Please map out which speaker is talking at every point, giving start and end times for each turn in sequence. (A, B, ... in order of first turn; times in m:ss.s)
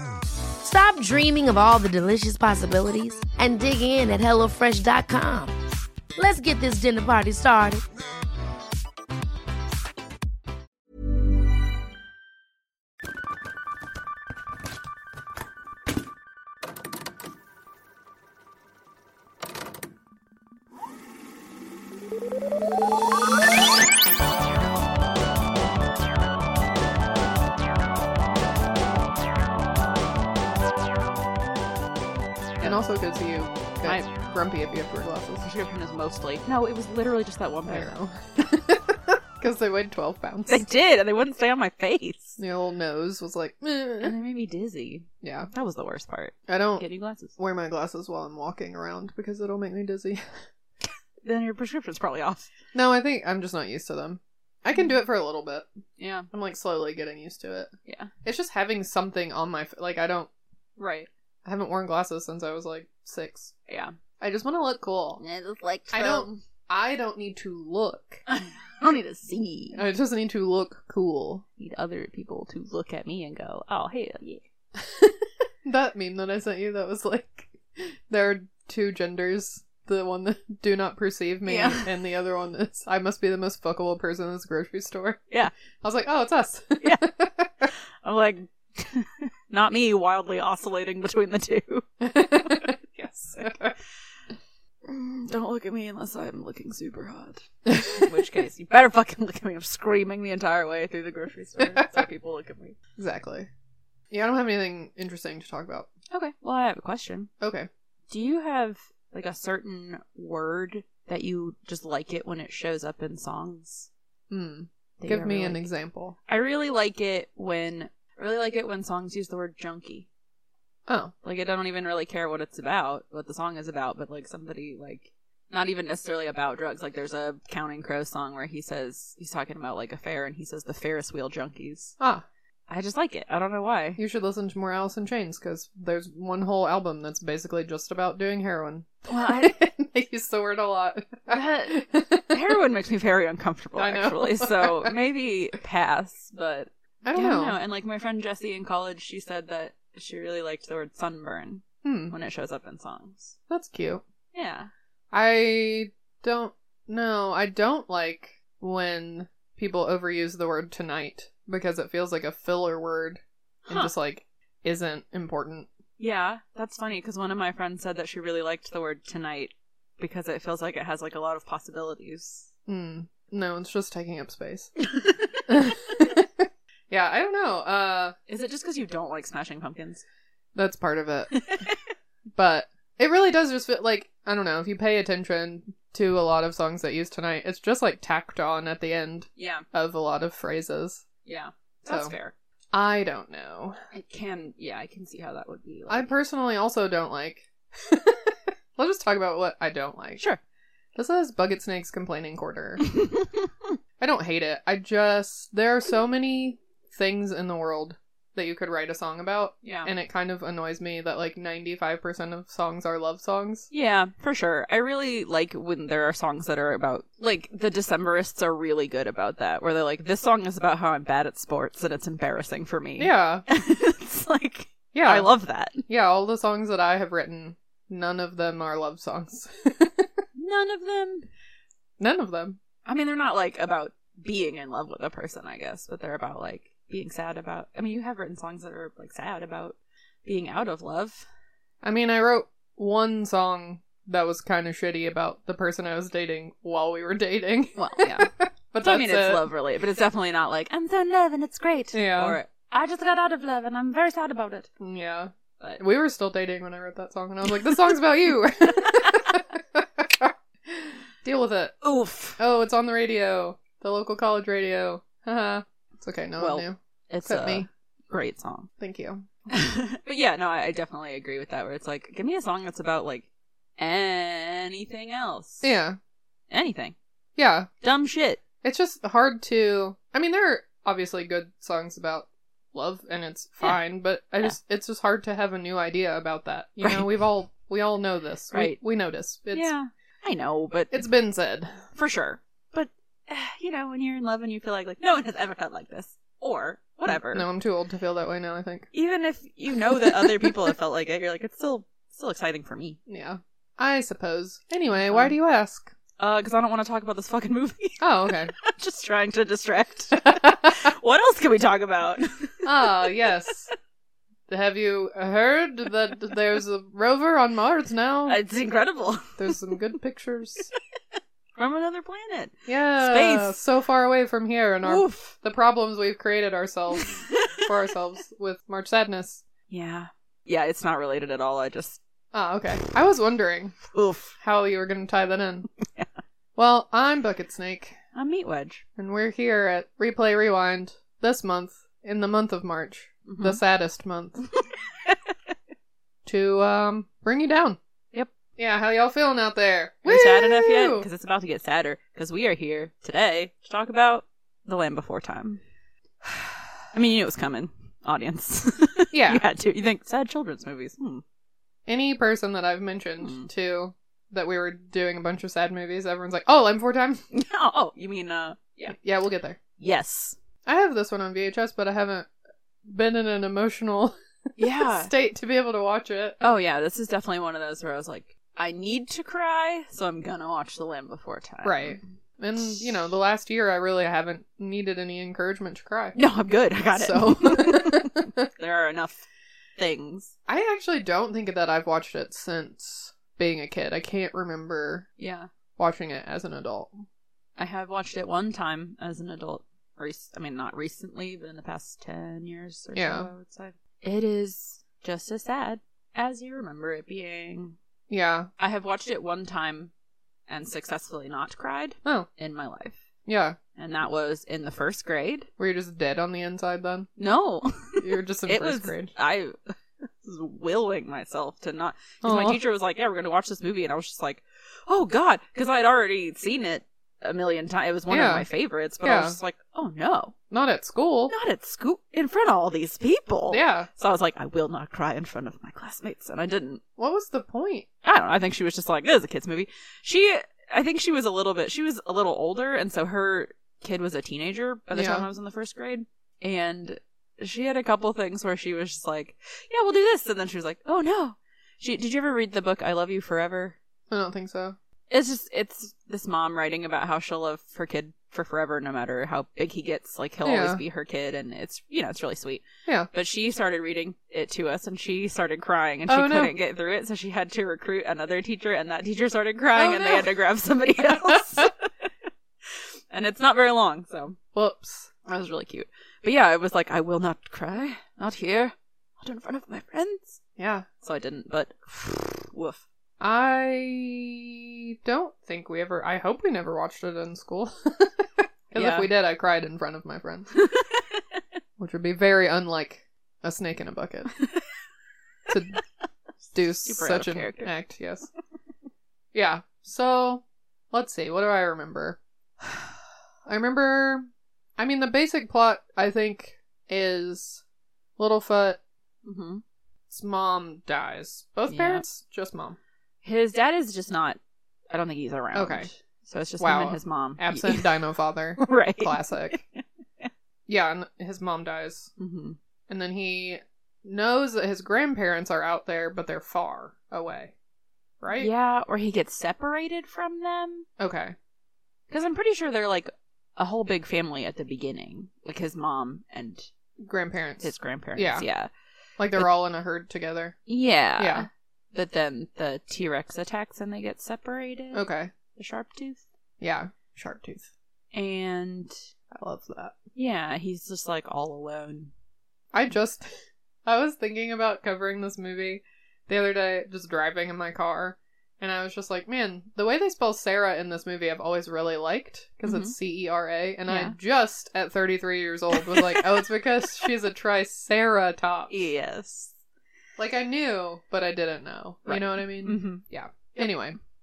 0:00.6-0:05.6 A
0:06.2-0:07.8 A
0:32.6-0:35.4 B
0:33.8-0:34.1 C
0:35.4-0:37.9 C
0:37.7-0:40.6 B
0:40.5-0:42.4 C
0:42.4-0:44.1 B
0:44.0-0:47.4 C
0:45.2-0:45.5 B
0:46.5-0:46.8 B
0:47.4-0:50.2 B
0:51.2-0:52.5 C
0:52.7-0:55.7 B
0:56.0-0:56.3 C
0:56.3-0:57.7 B
0:57.9-0:58.1 C
0:58.2-1:00.3 B
1:00.8-1:01.1 C
1:01.4-1:03.5 B
1:03.7-1:04.0 C
1:04.2-1:05.2 B
1:05.2-1:06.4 C
1:05.9-1:08.2 B
1:08.3-1:09.8 C
1:09.7-1:11.4 B
1:11.6-1:14.4 C
1:14.8-1:25.2 B
1:21.4-1:21.9 C
1:25.8-1:27.7 B
1:26.8-1:27.1 C
1:27.7-1:32.7 C
1:32.0-1:33.7 B
1:34.8-1:42.8 C
1:37.7-1:38.1 B
1:41.6-1:41.9 B
1:43.0-1:43.5 B
1:44.1-1:45.9 B
1:46.1-1:47.3 C
1:47.4-1:47.7 B
1:48.1-1:53.9 C
1:54.3-1:56.2 B
1:55.0-1:55.6 C
1:56.3-2:00.1 C
2:00.9-2:01.1 B
2:01.2-2:11.9 C
2:12.0-2:12.2 B
2:12.7-2:14.0 C
2:14.0-2:22.4 B
2:19.1-2:19.6 C
2:21.3-2:33.4 C
2:23.8-2:24.9 B
2:27.0-2:27.6 B
2:31.8-2:32.1 B
2:33.5-2:34.0 B
2:34.3-2:34.7 C
2:35.1-2:45.7 B
2:43.7-2:43.9 C
2:46.0-2:52.5 C
2:52.7-2:54.7 B
2:54.8-2:55.4 C
2:55.5-2:58.1 B
2:58.3-3:00.0 C
3:00.5-3:01.5 B
3:01.4-3:01.8 C
3:02.3-3:11.0 B
3:09.4-3:09.6 C
3:11.2-3:12.3 C
3:11.8-3:12.1 B
3:12.7-3:13.8 B
3:13.9-3:16.1 C
3:15.9-3:20.2 B
3:21.0-3:22.8 B
3:23.0-3:23.4 C
3:24.0-3:33.7 B
3:29.6-3:29.9 C
3:33.7-3:45.8 C
3:43.0-3:43.4 B
3:44.9-3:45.3 B
3:45.9-3:50.1 B
3:50.3-3:51.3 C
3:52.0-3:52.6 B
3:52.8-4:01.2 C
4:01.8-4:09.4 B
4:07.8-4:08.3 C
4:08.8-4:14.7 C
4:11.9-4:12.4 B
4:14.8-4:21.8 B
4:21.8-4:22.4 C
4:22.4-4:27.7 B
4:26.4-4:28.7 C
4:28.8-4:29.3 B
4:29.5-4:35.7 C
4:35.6-4:36.0 B
4:36.5-4:36.9 C
4:37.4-4:37.7 B
4:37.8-4:38.4 C
4:38.6-4:49.7 B
4:46.8-4:47.1 C
4:48.5-4:48.8 C
4:49.5-4:51.1 C
4:50.9-4:51.7 B
4:51.9-4:57.4 C
4:57.1-4:58.9 B
4:58.9-5:03.0 C
4:59.9-5:00.6 B
5:03.1-5:05.9 B
5:05.0-5:05.3 C
5:06.2-5:13.1 C
5:08.0-5:08.5 B
5:12.6-5:13.7 B
5:14.5-5:18.4 B
5:18.2-5:19.6 C
5:19.4-5:20.7 B
5:21.6-5:23.6 C
5:22.7-5:29.4 B
5:24.8-5:25.3 C
5:26.9-5:27.4 C
5:29.7-5:32.0 C
5:32.3-5:33.8 B
5:33.9-5:34.3 C
5:34.4-5:35.7 B
5:36.6-5:38.0 B
5:38.1-5:38.8 C
5:39.0-5:44.5 B
5:43.2-5:43.6 C
5:44.7-5:45.5 C
5:46.2-5:47.8 B
5:48.6-5:51.1 B
5:50.0-5:55.6 C
5:56.9-6:01.2 C
5:59.1-5:59.4 B
6:01.9-6:07.2 B
6:03.2-6:03.5 C
6:07.3-6:09.0 C
6:09.0-6:09.6 B
6:09.8-6:10.4 C
6:10.6-6:12.3 B
6:12.8-6:14.1 B
6:14.6-6:15.1 C
6:14.8-6:16.4 B
6:16.4-6:22.0 C
6:21.6-6:26.2 B
6:26.1-6:29.2 C
6:26.9-6:28.5 B
6:29.8-6:30.3 C
6:30.5-6:35.1 B
6:35.2-6:35.5 C
6:35.8-6:37.0 B
6:37.6-6:47.8 C
6:42.9-6:43.3 B
6:48.1-6:48.5 B
6:48.6-6:49.9 C
6:50.5-6:53.0 C
6:53.2-6:53.6 B
6:53.8-6:55.5 C
6:55.6-6:57.1 B
6:57.2-7:10.4 C
6:58.0-6:59.1 B
7:02.2-7:02.6 B
7:08.1-7:08.5 B
7:09.0-7:09.4 B
7:10.5-7:11.3 B
7:11.3-7:16.8 C
7:13.5-7:13.9 B
7:17.0-7:17.9 B
7:18.0-7:33.8 C
7:24.9-7:25.2 B
7:34.1-7:34.8 B
7:35.1-7:52.1 C
7:40.4-7:40.8 B
7:46.1-7:46.5 B
7:49.7-7:50.3 B
7:51.1-7:51.7 B
7:52.7-7:54.4 C
7:54.5-7:55.1 B
7:55.2-8:00.4 C
8:00.6-8:00.8 B
8:01.0-8:02.8 C
8:03.2-8:10.5 B
8:08.7-8:09.1 C
8:10.5-8:11.4 C
8:11.8-8:14.3 B
8:15.5-8:15.8 B
8:16.5-8:18.3 B
8:16.8-8:17.7 C
8:19.3-8:27.6 B
8:28.2-8:28.8 B
8:29.2-8:29.6 C
8:30.1-8:32.8 B
8:31.7-8:32.0 C
8:33.2-8:34.4 C
8:34.9-8:37.9 C
8:35.5-8:35.9 B
8:36.6-8:39.6 B
8:38.6-8:40.3 C
8:40.7-8:42.1 B
8:42.2-8:42.6 C
8:42.9-8:47.5 B
8:48.2-8:48.5 B
8:48.3-8:50.9 C
8:51.0-8:51.3 B
8:52.1-8:56.7 C
8:57.0-8:58.4 B
8:57.6-8:58.7 C
8:59.2-9:00.6 B
9:00.7-9:05.0 C
9:01.2-9:01.5 B
9:04.9-9:05.3 B
9:05.5-9:06.2 C
9:06.6-9:07.7 B
9:08.1-9:09.0 C
9:09.3-9:10.0 B
9:10.1-9:12.1 C
9:12.7-9:13.2 B
9:13.8-9:28.8 B
9:22.6-9:23.0 C
9:23.9-9:24.2 C
9:25.7-9:26.4 C
9:28.7-9:29.6 C
9:30.2-9:34.0 B
9:32.1-9:33.0 C